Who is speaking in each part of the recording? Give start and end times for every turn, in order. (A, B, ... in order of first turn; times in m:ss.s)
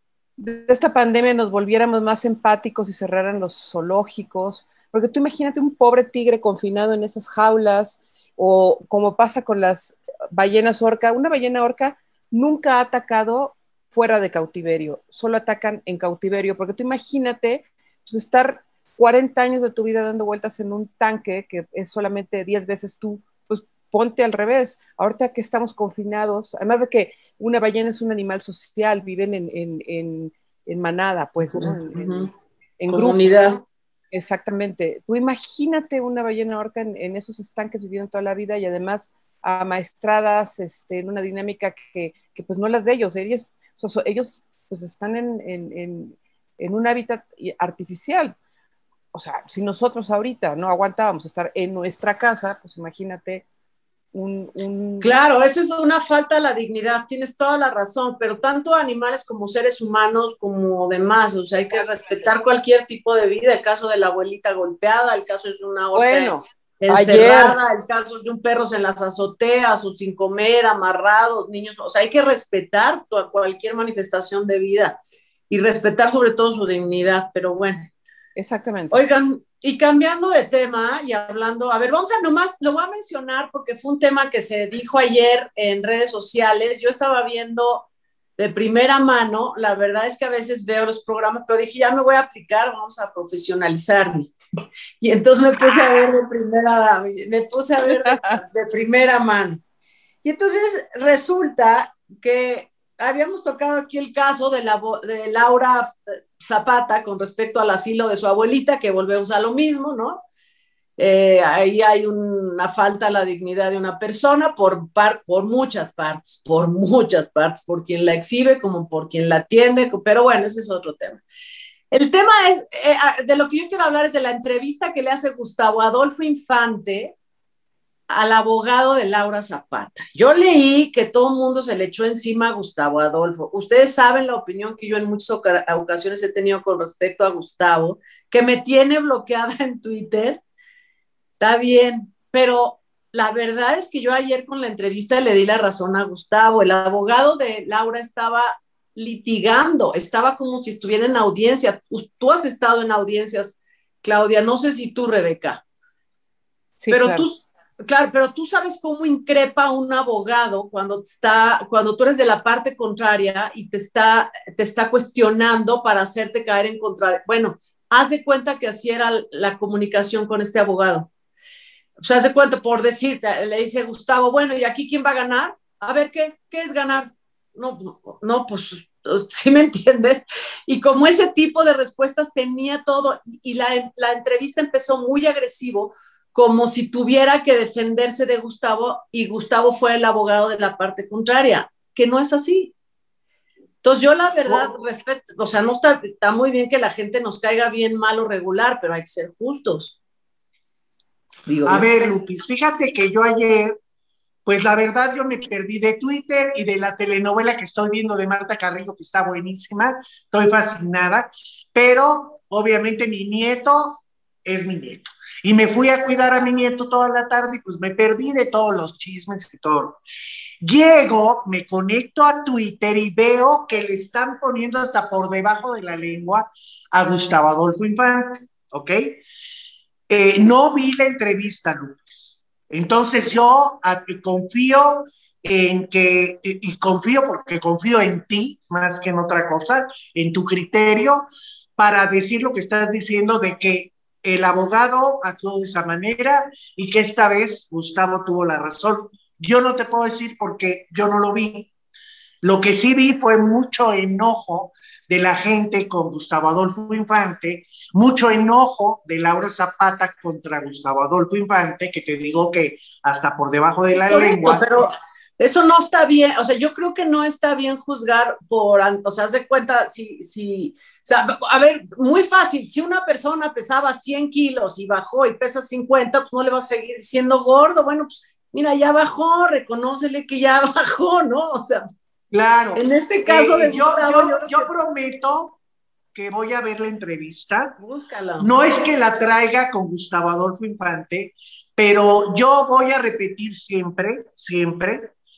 0:00.4-0:32.3 A
0:31.4-0:32.3 B
0:32.8-0:33.4 A
0:32.9-0:33.6 B
0:34.1-0:48.4 A
0:49.1-0:53.4 A
0:54.1-0:55.1 A
0:55.0-1:15.0 B
1:05.9-1:07.6 A
1:15.5-1:17.9 B
1:18.4-1:19.0 A
1:18.9-1:34.3 B
1:35.0-1:39.6 B
1:37.9-1:38.4 A
1:40.2-1:50.2 B
1:51.0-2:01.2 B
2:01.9-2:07.2 B
2:08.1-2:20.4 B
2:21.4-2:35.6 B
2:36.8-2:37.2 A
2:36.9-2:51.1 B
2:52.0-3:12.7 B
3:13.8-3:20.0 B
3:21.5-3:21.9 B
3:21.6-3:23.7 C
3:24.4-3:40.0 C
3:40.6-3:49.2 C
3:50.1-4:01.2 C
4:01.8-4:11.7 C
4:12.4-4:24.6 C
4:24.1-4:41.8 B
4:42.3-4:45.6 C
4:42.8-4:44.7 B
4:46.1-4:47.8 C
4:47.8-4:48.5 B
4:48.4-4:55.1 C